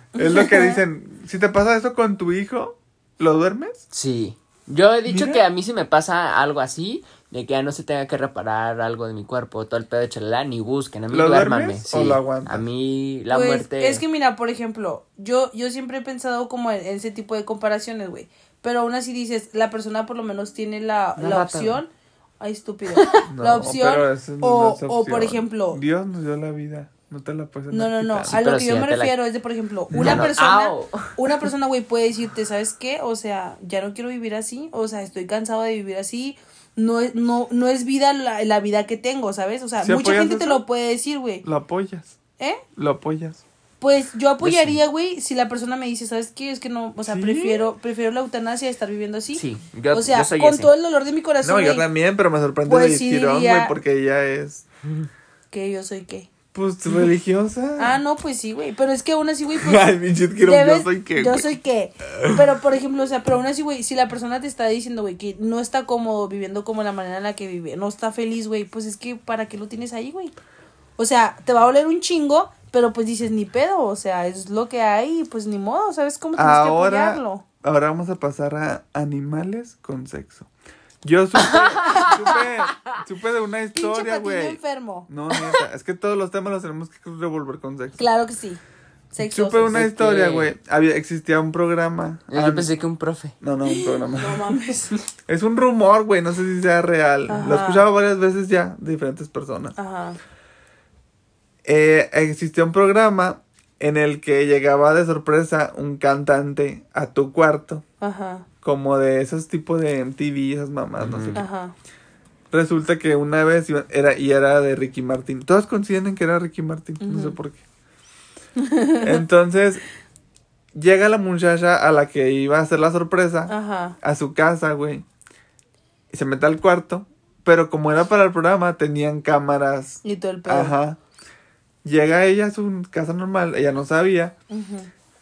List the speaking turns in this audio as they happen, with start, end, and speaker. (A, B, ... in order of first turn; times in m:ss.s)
0:00.2-0:00.8 A
0:00.2-0:03.8 B
0:03.9-0:14.0 C
0:05.1-0:05.4 B
0:11.1-0:12.6 B
0:13.3-0:25.8 A
0:21.2-0:21.8 C
0:22.9-0:23.2 C
0:23.3-0:28.4 B
0:27.7-0:41.4 A
0:28.3-0:29.1 C
0:29.9-0:30.3 B
0:30.0-0:31.2 C
0:39.8-0:40.6 B
0:41.4-0:42.2 B
0:42.8-0:43.4 B
0:43.8-0:51.9 A
0:44.4-0:44.8 C
0:47.1-0:47.7 B
0:49.3-0:50.7 C
0:51.4-0:54.6 B
0:52.6-0:53.7 A
0:55.5-0:56.3 A
0:56.5-0:58.0 B
0:57.8-1:10.3 A
0:59.6-1:01.5 B
1:02.1-1:02.5 B
1:11.0-1:17.4 A
1:16.4-1:20.5 B
1:21.0-1:28.0 B
1:21.4-1:23.0 C
1:21.9-1:22.4 A
1:23.7-1:25.1 A
1:28.0-1:28.6 A
1:29.1-1:29.8 A
1:29.2-1:32.7 B
1:29.7-1:30.5 C
1:32.3-1:33.4 C
1:33.4-1:34.5 B
1:33.6-1:34.9 A
1:35.3-1:39.8 B
1:37.3-1:37.8 A
1:39.8-1:40.2 A
1:41.6-1:47.8 B
1:48.0-1:48.5 A
1:48.6-1:51.4 B
1:51.0-1:51.4 C
1:51.3-1:51.7 A
1:52.5-1:57.6 B
1:57.0-1:57.4 A
1:58.6-1:59.2 A
1:59.0-1:59.8 B
2:00.7-2:05.0 B
2:03.5-2:04.0 A
2:06.1-2:11.0 B
2:10.0-2:10.7 A
2:11.8-2:14.3 B
2:14.5-2:14.9 A